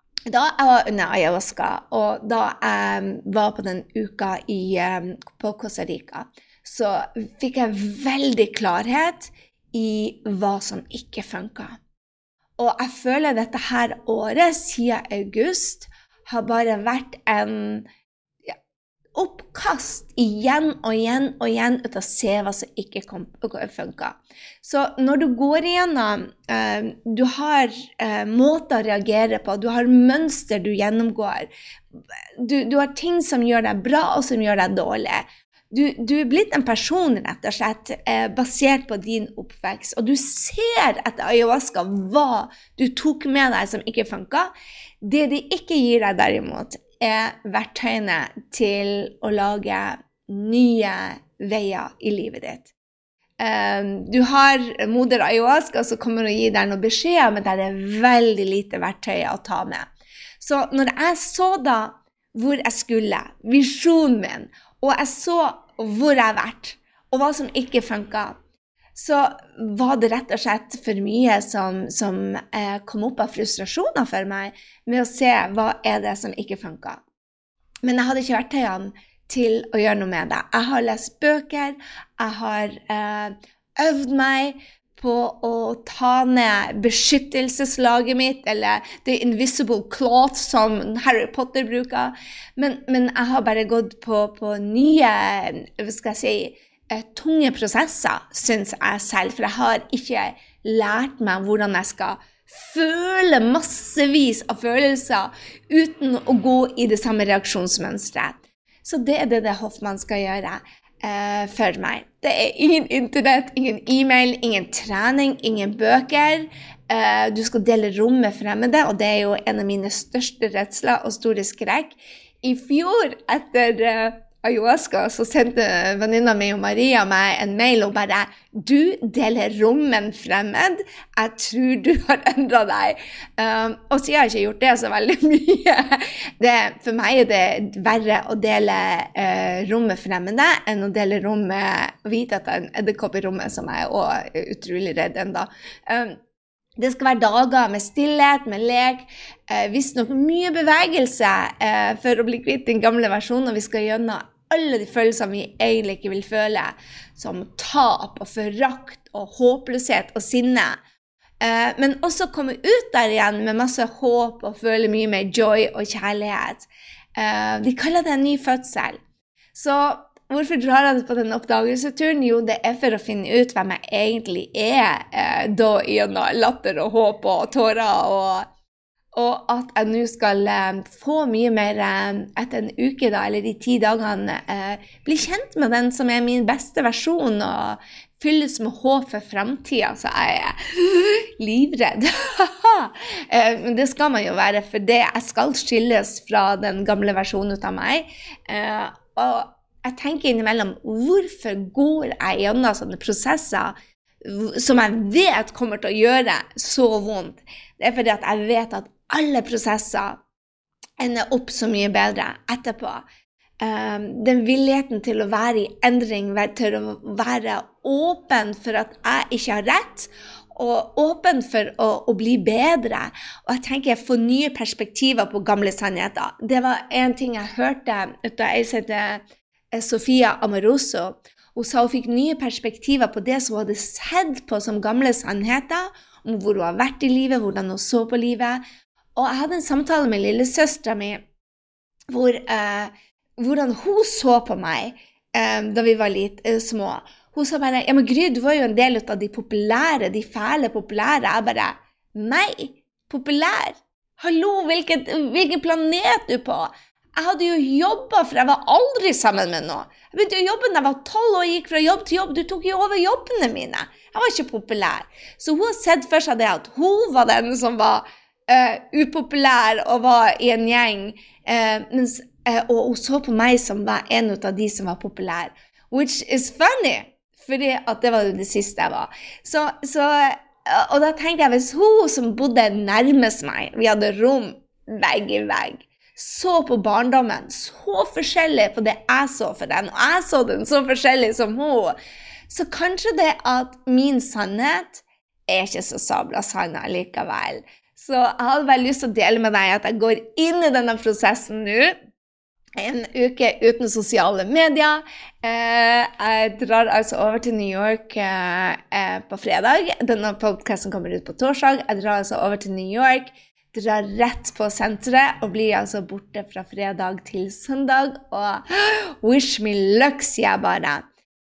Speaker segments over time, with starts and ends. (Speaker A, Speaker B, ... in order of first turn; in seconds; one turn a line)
Speaker A: 0.3-11.8
Speaker A: 12.6-17.9
Speaker A: 19.1-31.5
Speaker A: 32.4-44.5
Speaker A: 45.0-52.7
Speaker A: 53.4-59.9
Speaker A: 60.4-68.4
Speaker A: 68.9-77.0
Speaker A: 77.8-146.2
Speaker A: 146.8-160.8
Speaker A: 161.4-169.0
Speaker A: 169.5-178.4
Speaker A: 179.1-210.2
Speaker A: 211.0-213.0
Speaker A: 213.6-229.2
Speaker A: 229.7-238.6
Speaker A: 239.2-241.2
Speaker A: 242.1-291.9
Speaker A: 292.5-301.9
Speaker A: 302.8-321.1